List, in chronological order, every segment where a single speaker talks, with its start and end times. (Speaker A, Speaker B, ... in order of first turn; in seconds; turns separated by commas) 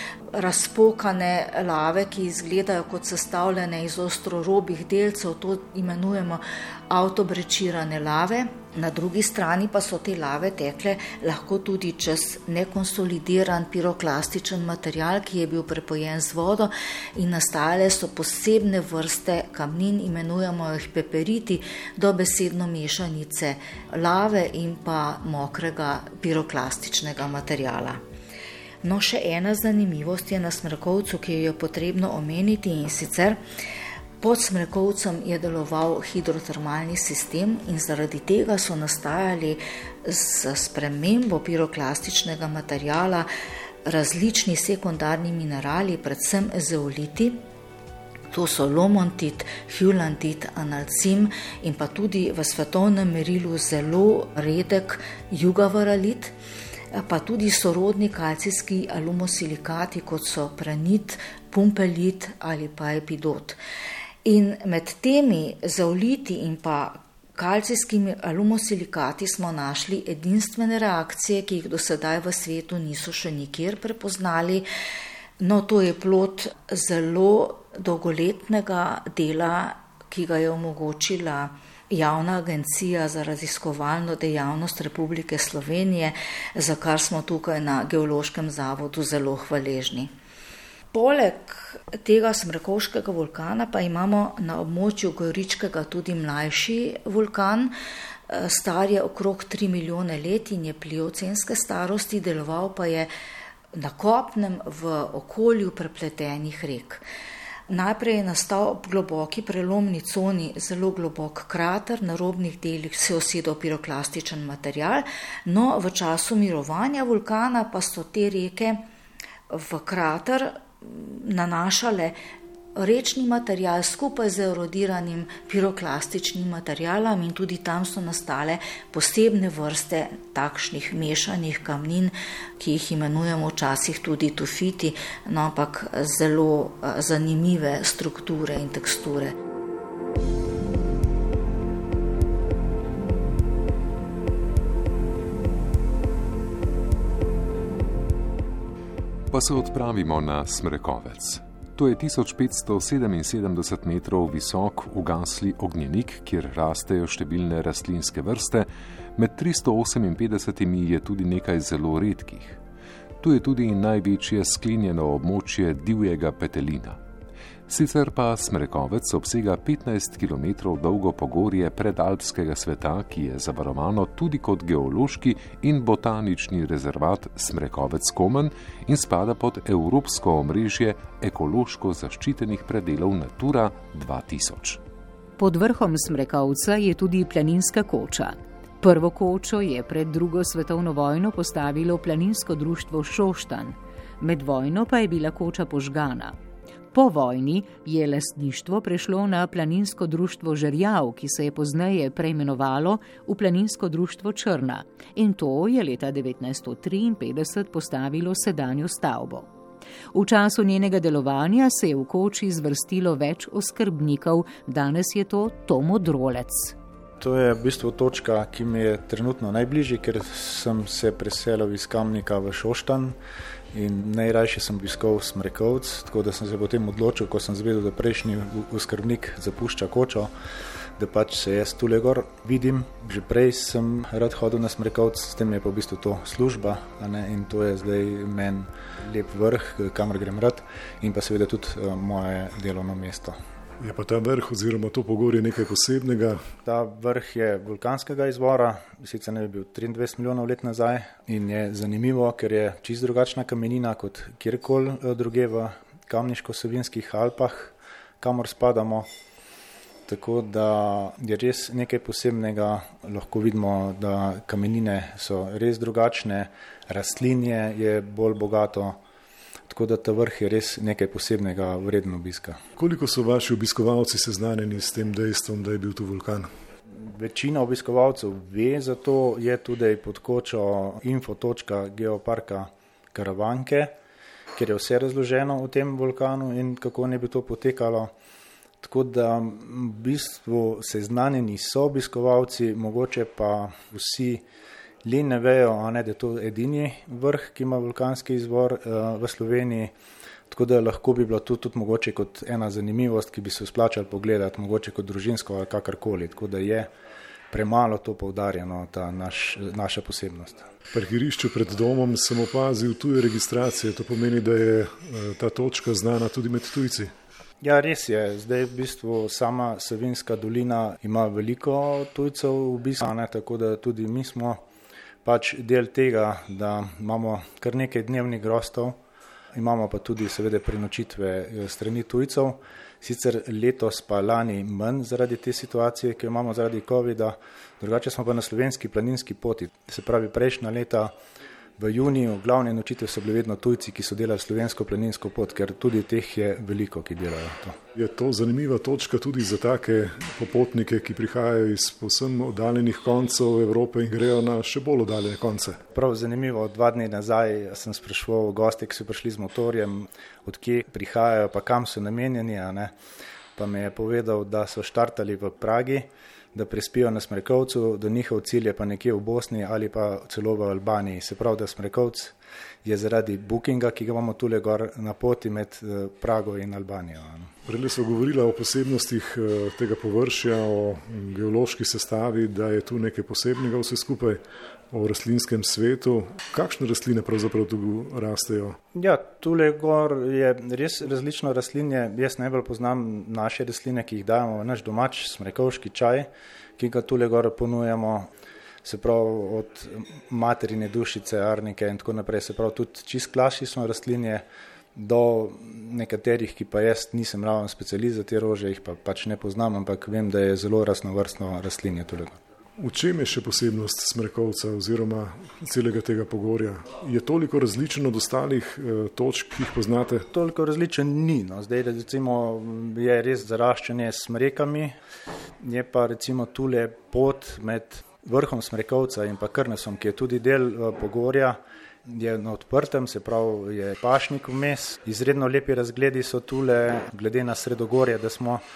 Speaker A: 0.3-28.0, Speaker A: 28.8-33.4, Speaker A: 34.2-43.3, Speaker A: 43.8-47.4, Speaker A: 48.3-56.3, Speaker A: 56.9-63.6, Speaker A: 64.2-74.7, Speaker A: 75.4-90.1, Speaker A: 90.9-97.8, Speaker A: 98.3-103.1, Speaker A: 103.7-107.0, Speaker A: 107.7-118.8, Speaker A: 119.5-122.2, Speaker A: 122.8-139.3, Speaker B: 149.3-162.6, Speaker B: 163.2-167.0, Speaker B: 167.7-184.8, Speaker C: 185.4-196.3, Speaker C: 196.9-209.5, Speaker C: 210.1-216.7, Speaker D: 217.2-223.2, Speaker D: 223.7-230.3, Speaker D: 231.0-243.4, Speaker E: 243.8-246.4, Speaker D: 246.6-259.1, Speaker D: 260.1-269.0, Speaker D: 269.7-272.6, Speaker E: 272.8-276.5, Speaker D: 277.0-283.9, Speaker D: 284.5-288.1, Speaker D: 288.8-294.4, Speaker D: 295.0-299.9, Speaker D: 300.5-306.9, Speaker D: 307.5-310.6, Speaker E: 310.9-317.1, Speaker D: 317.6-324.6, Speaker D: 325.2-329.0, Speaker D: 329.5-341.1, Speaker D: 341.8-347.8, Speaker E: 347.9-355.8, Speaker D: 355.9-362.9, Speaker D: 363.6-377.5, Speaker E: 377.6-388.8, Speaker D: 388.9-398.3, Speaker D: 398.8-404.4, Speaker D: 404.9-412.4, Speaker E: 412.8-420.3, Speaker D: 420.3-424.9, Speaker D: 425.6-438.6